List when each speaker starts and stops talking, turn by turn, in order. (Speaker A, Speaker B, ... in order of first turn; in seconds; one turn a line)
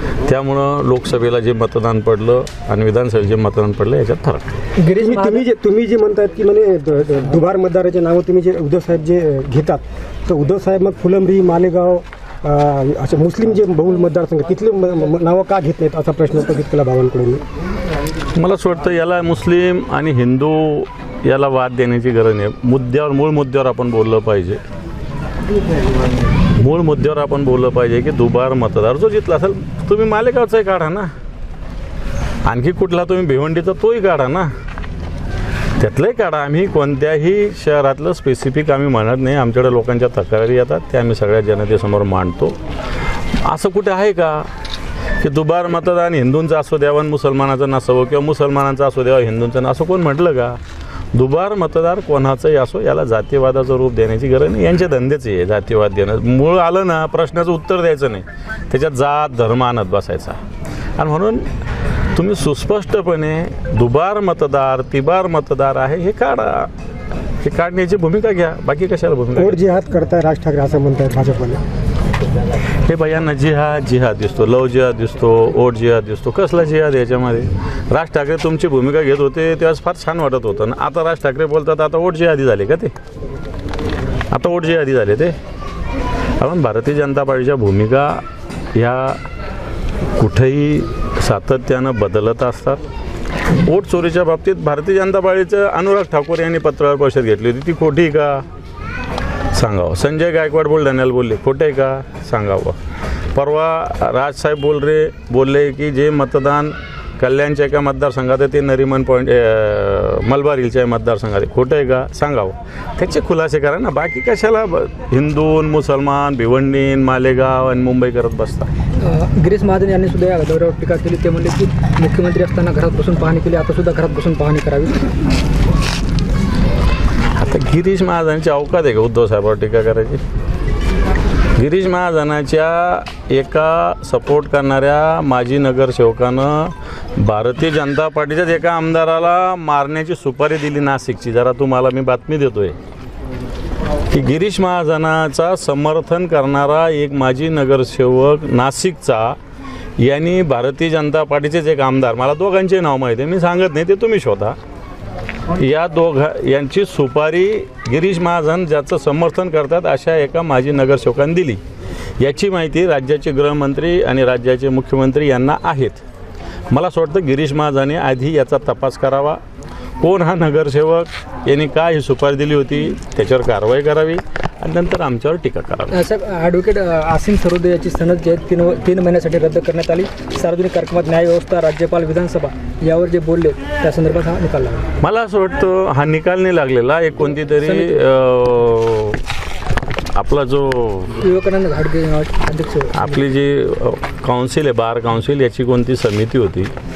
Speaker A: 0.2-4.5
Speaker B: 4.8-5.5
Speaker C: 5.0-17.4
Speaker A: 18.4-24.6
Speaker A: 26.6-31.1
Speaker A: 32.5-34.5
Speaker A: 35.8-42.6
Speaker A: 43.4-44.5
Speaker A: 45.2-50.6
Speaker A: 51.1-60.4
Speaker A: 61.0-61.5
Speaker A: 62.1-66.7
Speaker A: 67.4-69.6
Speaker C: 69.4-71.6
Speaker A: 72.9-82.9
Speaker A: 84.3-85.4
Speaker A: 86.4-88.2
Speaker A: 88.8-89.2
Speaker A: 90.2-92.8
Speaker A: 93.6-98.5
Speaker A: 99.5-102.8
Speaker A: 103.3-118.7
Speaker B: 119.0-125.1
Speaker A: 127.4-130.2
Speaker A: 131.6-142.8
Speaker A: 144.1-149.4
Speaker A: 150.0-154.6
Speaker A: 155.6-161.6
Speaker A: 162.2-166.0
Speaker A: 166.7-169.4
Speaker A: 170.0-176.0
Speaker B: 175.9-184.9
Speaker A: 185.0-189.2
Speaker B: 187.6-188.1
Speaker A: 190.1-191.2
Speaker B: 191.2-193.2
Speaker A: 192.9-196.7